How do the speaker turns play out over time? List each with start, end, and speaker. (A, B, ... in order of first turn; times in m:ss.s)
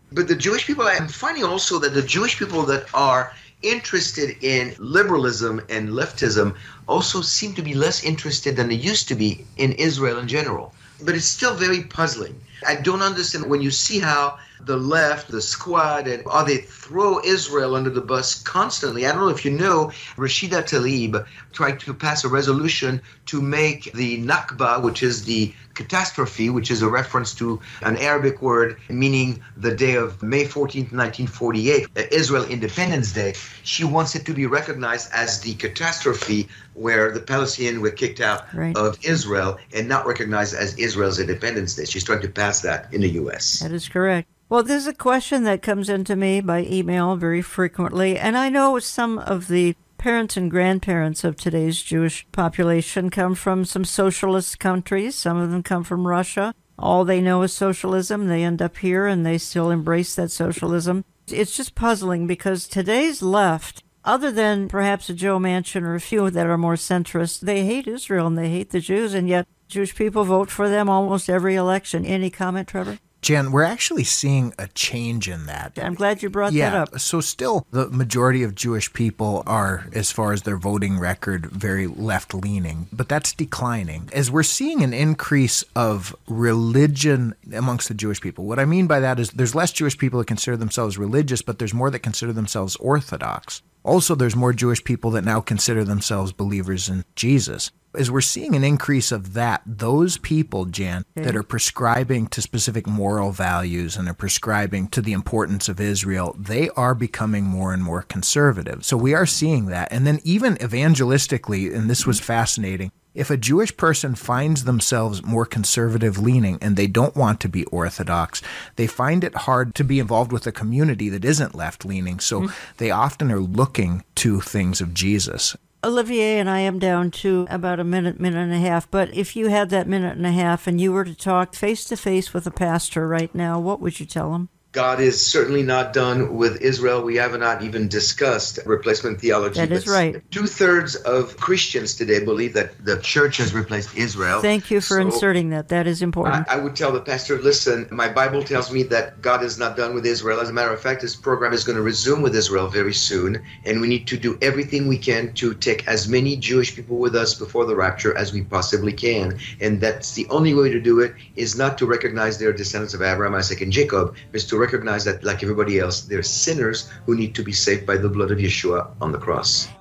0:00.1-0:43.6 A
0:38.5-0:38.8 B
0:43.6-1:13.0 B
1:13.2-2:05.6 C
1:15.8-1:16.9 B
2:05.8-2:14.5 B
2:14.7-2:25.2 A
2:19.5-2:20.2 B
2:24.4-2:26.5 B
2:26.2-2:49.7 A